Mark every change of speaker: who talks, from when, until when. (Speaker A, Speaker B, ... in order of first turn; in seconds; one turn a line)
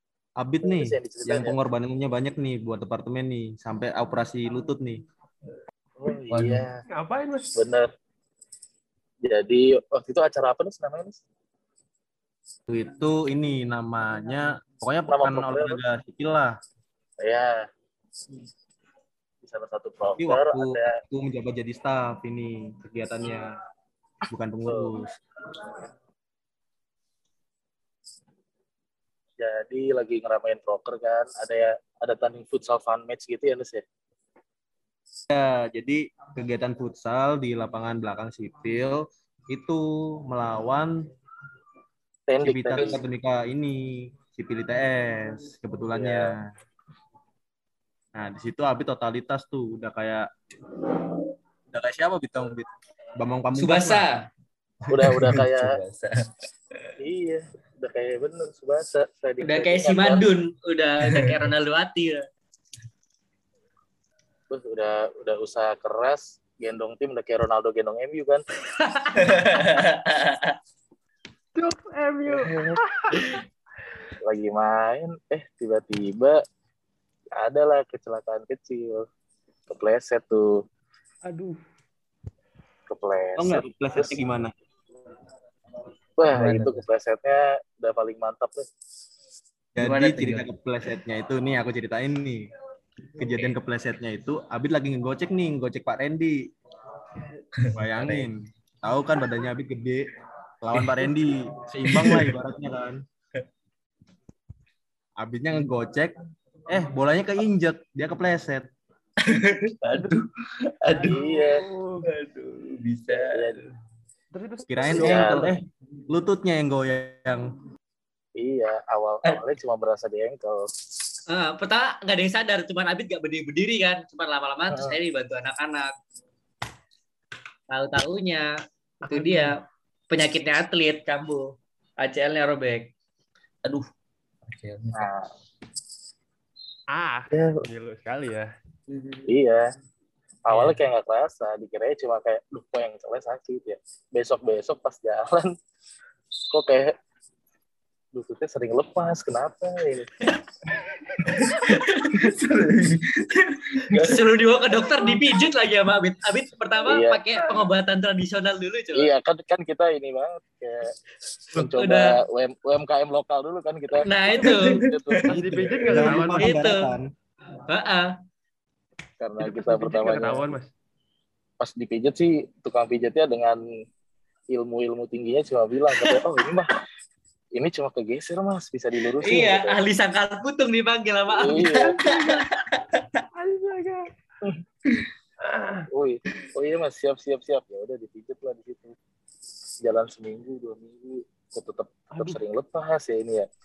Speaker A: 0.4-5.0
Speaker B: 0.6-1.5
Speaker B: 6.0-6.8
Speaker C: 6.3-6.7
Speaker D: 6.9-7.6
Speaker B: 7.6-7.9
Speaker B: 9.2-11.2
Speaker A: 12.7-16.5
Speaker B: 15.1-15.8
Speaker B: 17.2-17.6
Speaker B: 19.4-20.9
Speaker A: 20.2-23.5
Speaker A: 24.3-25.1
Speaker B: 24.6-24.9
Speaker B: 29.4-33.8
Speaker A: 35.3-41.1
Speaker B: 42.3-43.0
Speaker A: 42.4-46.4
Speaker B: 45.9-46.4
Speaker A: 48.1-50.3
Speaker A: 51.7-54.0
Speaker E: 53.5-54.2
Speaker B: 54.9-55.7
Speaker C: 55.1-56.1
Speaker B: 57.0-60.2
Speaker E: 59.4-62.2
Speaker B: 64.5-68.4
Speaker E: 68.8-69.2
Speaker C: 69.2-70.5
Speaker D: 71.5-73.4
Speaker B: 72.3-72.8
Speaker B: 74.2-76.4
Speaker B: 77.3-79.0
Speaker B: 79.7-80.6
Speaker D: 81.2-81.6
Speaker B: 82.9-84.2
Speaker A: 83.3-84.5
Speaker B: 86.2-88.7
Speaker C: 86.3-86.8
Speaker A: 89.8-92.4
Speaker C: 89.8-90.5
Speaker A: 93.2-96.4
Speaker C: 97.6-98.2
Speaker A: 97.7-100.1
Speaker A: 100.6-103.0
Speaker C: 101.9-102.3
Speaker A: 105.2-106.1
Speaker A: 106.7-108.7
Speaker C: 109.2-111.3
Speaker D: 110.9-112.1
Speaker B: 111.0-111.6
Speaker C: 112.0-113.6
Speaker B: 113.1-113.6
Speaker D: 114.3-115.3
Speaker A: 114.7-117.5
Speaker B: 114.9-115.5
Speaker B: 118.4-120.7
Speaker E: 121.3-125.9
Speaker B: 124.7-125.0
Speaker E: 127.7-128.5
Speaker D: 129.0-129.6
Speaker E: 129.1-129.6
Speaker E: 130.1-131.5
Speaker E: 132.0-132.9
Speaker C: 134.4-135.1
Speaker B: 134.9-135.3
Speaker D: 136.9-138.5
Speaker B: 137.3-137.6
Speaker C: 138.9-139.3
Speaker B: 139.3-139.6
Speaker B: 140.4-145.5
Speaker E: 140.5-140.8
Speaker B: 146.5-146.9
Speaker B: 148.1-150.1
Speaker C: 151.2-154.2
Speaker E: 153.9-159.1
Speaker B: 156.9-157.2
Speaker B: 158.9-160.9
Speaker B: 161.5-166.2
Speaker E: 161.5-162.2
Speaker E: 164.0-164.8
Speaker C: 164.4-165.2
Speaker D: 165.3-166.5
Speaker A: 165.3-167.1
Speaker E: 166.4-166.9
Speaker E: 167.7-168.1
Speaker B: 169.2-170.5
Speaker D: 169.4-170.7
Speaker B: 171.6-173.6
Speaker B: 174.5-176.7
Speaker B: 177.5-179.8
Speaker E: 179.2-182.0
Speaker B: 181.3-182.1
Speaker C: 181.9-183.0
Speaker D: 183.3-184.1
Speaker D: 185.4-185.9
Speaker B: 185.9-188.9
Speaker B: 189.8-193.5